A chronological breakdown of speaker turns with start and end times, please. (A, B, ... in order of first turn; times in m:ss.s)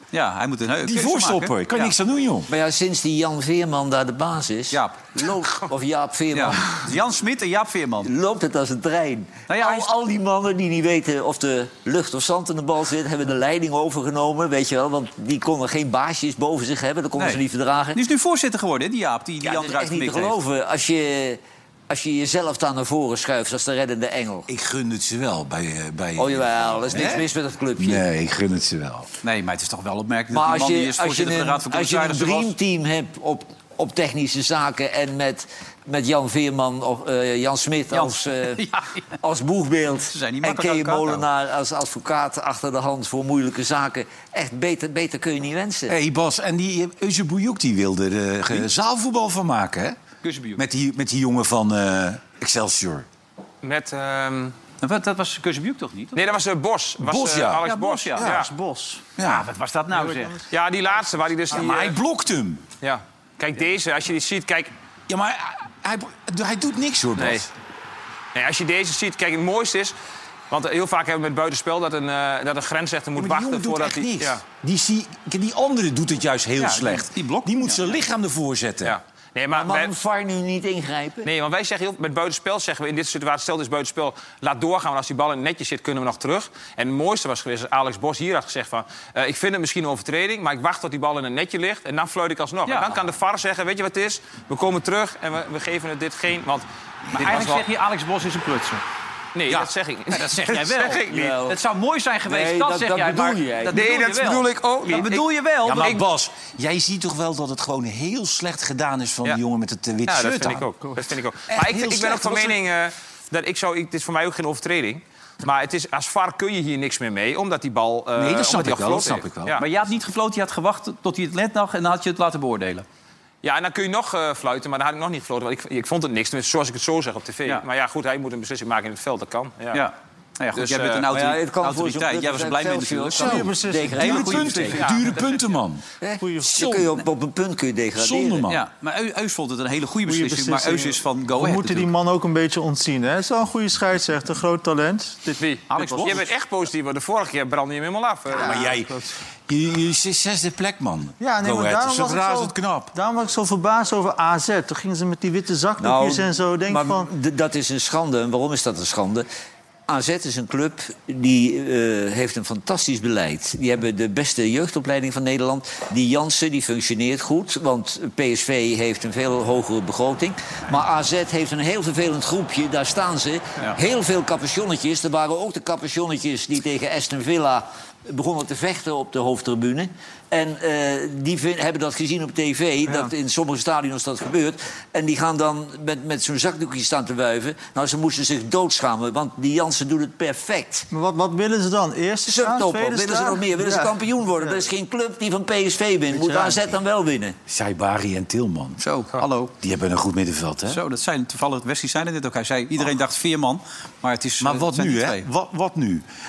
0:00.1-0:01.9 A
0:00.8-0:02.5 B
0:02.5-0:06.8 C
0:04.7-0:05.0 A
0:06.3-0:08.1 A
0:08.0-0:18.0 C
0:09.5-0:09.9 A
0:17.2-0:17.4 A
0:17.9-0:20.4 A
0:19.4-0:24.5 C
0:24.5-0:27.2 B
0:26.2-0:28.0 C
0:27.8-0:29.1 B
0:29.2-0:32.5 A
0:30.3-0:38.6 C
0:37.9-0:39.1 A
0:39.2-0:46.0 C
0:40.1-0:41.2 A
0:45.9-0:50.0 B
0:50.2-0:50.6 A
0:50.6-0:53.0 B
0:53.6-0:54.5 D
0:54.8-0:56.2 A
0:56.1-0:58.5 D
0:57.0-0:57.6 B
0:57.6-0:58.4 A
0:58.2-0:59.1 E
0:59.2-0:59.5 B
0:59.2-1:00.4 A
0:59.9-1:00.5 E
1:00.5-1:02.0 D
1:01.5-1:02.6 B
1:02.8-1:04.7 D
1:05.1-1:07.5 B
1:07.2-1:07.4 D
1:08.3-1:10.0 D
1:10.5-1:14.4 D
1:13.2-1:19.0 B
1:16.6-1:17.9 A
1:18.8-1:19.9 D
1:19.5-1:21.3 C
1:21.2-1:36.6 D
1:32.6-1:33.0 A
1:37.1-1:38.8 A
1:37.2-1:37.6 D
1:39.3-1:41.4 D
1:39.5-1:45.9 A
1:41.1-1:41.6 C
1:42.3-1:43.8 C
1:43.7-1:45.2 D
1:45.6-1:50.7 B
1:45.8-1:46.0 D
1:50.0-1:59.6 D
1:51.5-1:52.6 B
1:58.2-1:59.6 B
1:59.6-2:02.8 A
2:03.4-2:09.8 D
2:09.7-2:15.0 A
2:10.5-2:11.0 D
2:11.1-2:14.6 C
2:13.2-2:15.8 B
2:13.2-2:14.8 E
2:14.8-2:15.2 D
2:16.0-2:18.5 C
2:16.2-2:16.7 E
2:16.5-2:16.9 B
2:18.0-2:18.6 B
2:18.5-2:21.9 A
2:20.0-2:26.2 E
2:25.4-2:28.6 D
2:25.7-2:26.2 A
2:28.3-2:29.1 E
2:28.3-2:28.9 B
2:29.5-2:32.9 B
2:31.2-2:37.1 E
2:35.8-2:39.3 C
2:39.9-3:10.9 C
3:10.9-3:13.9 E
3:12.2-3:17.4 C
3:16.1-3:16.6 E
3:17.5-3:18.8 B
3:18.8-3:19.5 A
3:19.6-3:20.8 B
3:20.7-3:25.3 A
3:24.4-3:26.0 B